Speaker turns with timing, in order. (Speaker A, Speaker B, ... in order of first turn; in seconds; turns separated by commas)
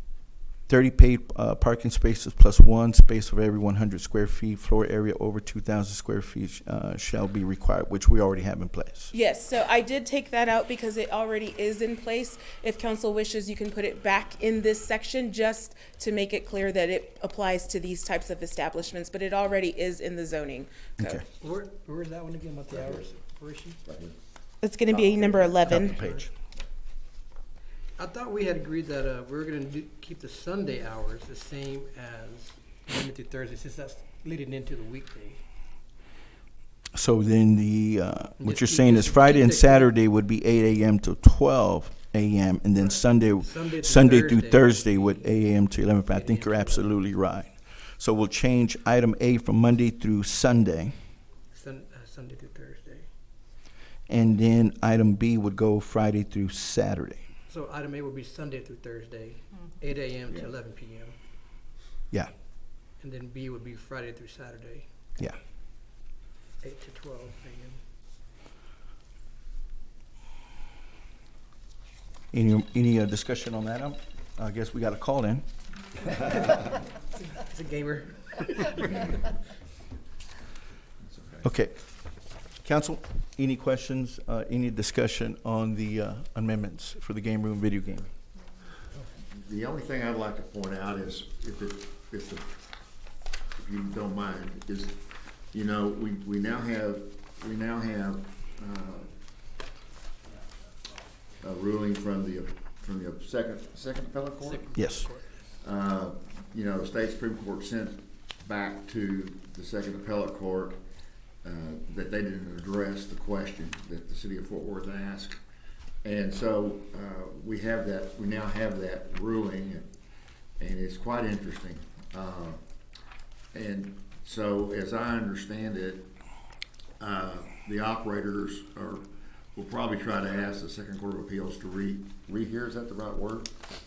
Speaker A: 0.7-9.1, Speaker B: 9.1-21.2, Speaker C: 21.4-23.8, Speaker D: 22.7-23.1, Speaker D: 23.8-24.1, Speaker B: 24.6-25.9, Speaker A: 25.4-26.3, Speaker C: 25.8-26.2, Speaker C: 28.0-35.4, Speaker A: 36.9-50.9, Speaker C: 38.4-39.9, Speaker C: 42.7-47.0, Speaker C: 51.5-53.1, Speaker A: 54.1-57.2, Speaker C: 57.5-61.1, Speaker C: 63.0-64.9, Speaker C: 66.6-67.8, Speaker A: 72.3-75.5, Speaker C: 76.2-76.6, Speaker C: 77.2-79.3, Speaker D: 81.0-81.4, Speaker A: 81.4-81.7, Speaker A: 82.6-88.1, Speaker D: 89.4-92.5, Speaker D: 93.6-95.0, Speaker D: 95.5-99.1, Speaker D: 101.4-104.7, Speaker C: 104.4-105.5, Speaker A: 104.7-105.1, Speaker D: 105.6-110.8, Speaker D: 111.4-115.4, Speaker D: 116.0-119.9, Speaker D: 120.6-122.6, Speaker D: 123.5-126.1, Speaker D: 127.0-133.5